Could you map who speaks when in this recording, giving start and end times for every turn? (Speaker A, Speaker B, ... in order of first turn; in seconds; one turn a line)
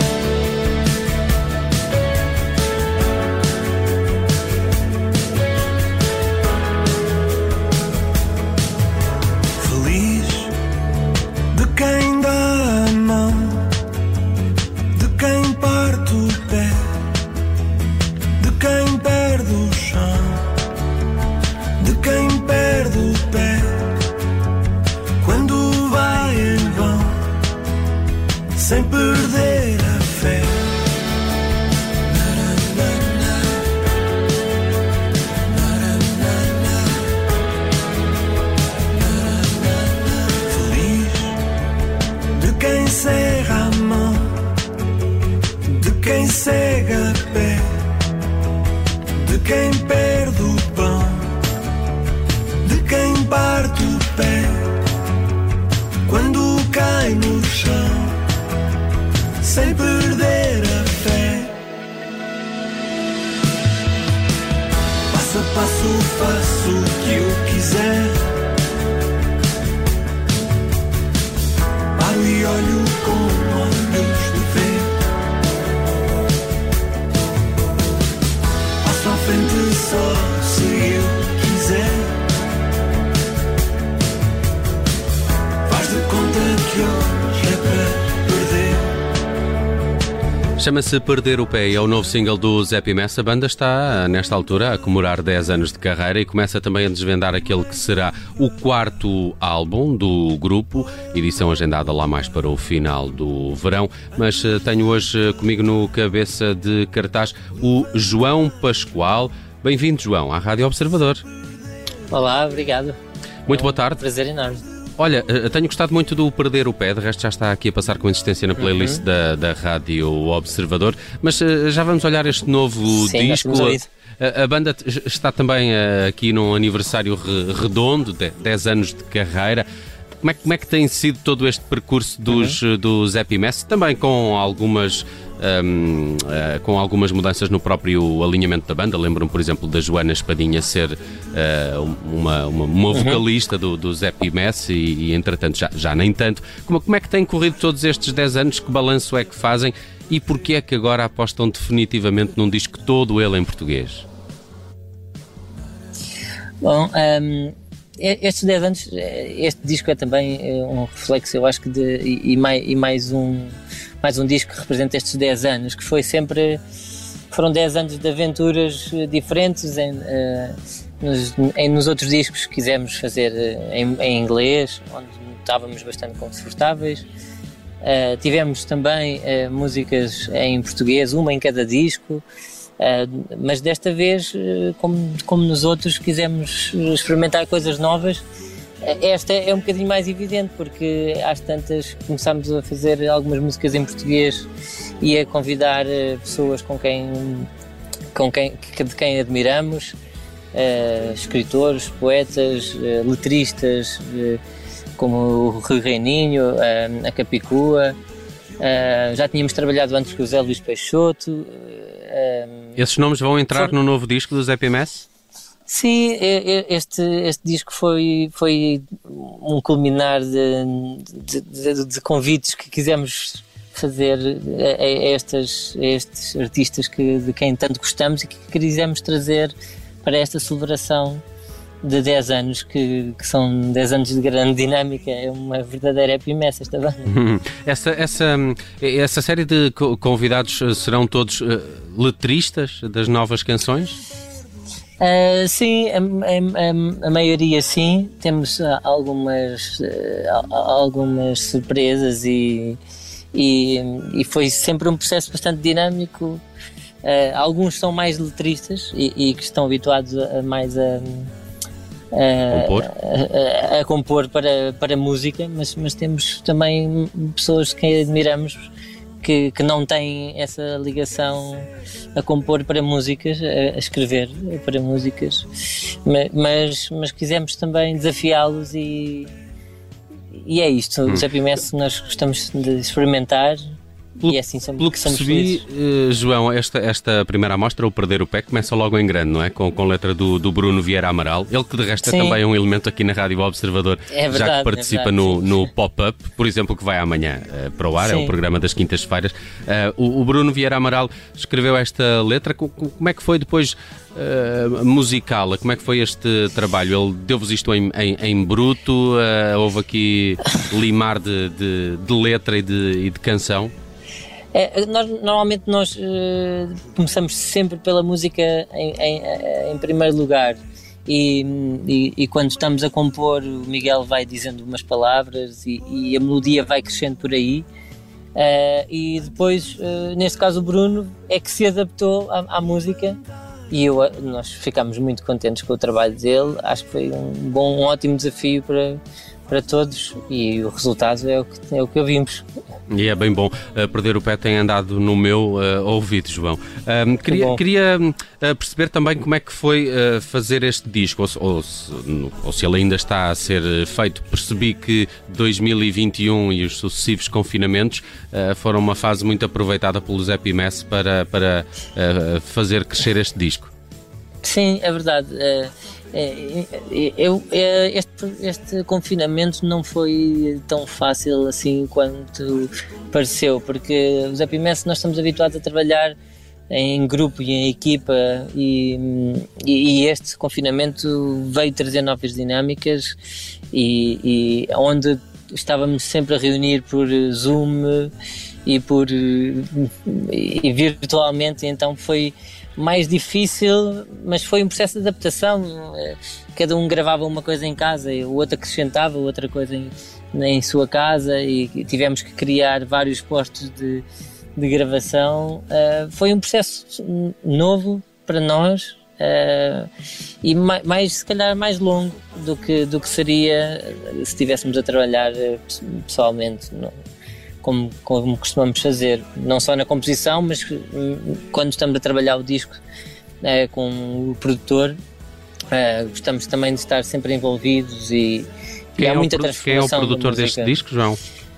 Speaker A: 9.6-10.6
Speaker A: 11.5-13.7
Speaker A: 14.9-17.1
Speaker A: 18.4-20.5
Speaker A: 21.8-24.0
Speaker A: 25.2-27.4
Speaker A: 28.6-30.7
Speaker A: 32.2-33.4
Speaker A: 35.6-36.8
Speaker A: 40.3-41.4
Speaker A: 42.3-44.4
Speaker A: 45.7-47.9
Speaker A: 49.1-51.4
Speaker A: 52.6-54.8
Speaker A: 56.0-58.2
Speaker A: 59.4-61.6
Speaker A: 65.1-68.4
Speaker A: 72.0-75.0
Speaker A: 78.8-82.2
Speaker A: 85.7-89.0
Speaker B: 90.6-111.2
Speaker C: 112.1-113.0
Speaker B: 113.5-114.0
Speaker C: 113.5-114.6
Speaker B: 115.0-129.7
Speaker C: 118.6-119.0
Speaker C: 122.9-123.9
Speaker B: 130.2-154.1
Speaker C: 132.3-132.6
Speaker C: 142.9-143.2
Speaker C: 156.6-166.6
Speaker C: 167.3-177.1
Speaker C: 177.8-182.2
Speaker C: 182.8-188.2
Speaker C: 188.8-194.5
Speaker C: 195.0-197.5
Speaker C: 198.1-199.9
Speaker C: 200.5-204.4
Speaker C: 205.0-208.0
Speaker C: 208.6-212.8
Speaker B: 212.8-215.1
Speaker C: 215.7-231.2
Speaker C: 231.8-237.1
Speaker B: 237.1-244.0
Speaker C: 245.0-252.8
Speaker C: 253.3-256.4
Speaker C: 257.0-261.3
Speaker C: 262.1-268.7
Speaker B: 262.5-262.9
Speaker C: 269.2-279.3
Speaker C: 280.3-283.6
Speaker B: 284.2-313.7
Speaker C: 284.3-285.6
Speaker C: 292.1-292.4
Speaker C: 294.1-295.7
Speaker C: 298.0-298.4
Speaker C: 314.5-327.7
Speaker C: 328.4-333.2
Speaker C: 333.7-342.5
Speaker B: 342.9-363.7
Speaker C: 347.3-347.6
Speaker C: 364.4-376.1
Speaker C: 376.7-383.2
Speaker C: 383.7-388.1
Speaker C: 388.7-404.1
Speaker C: 404.6-409.9
Speaker C: 410.4-416.9
Speaker C: 417.6-422.8
Speaker C: 423.4-425.0
Speaker C: 425.7-430.7
Speaker B: 429.0-431.2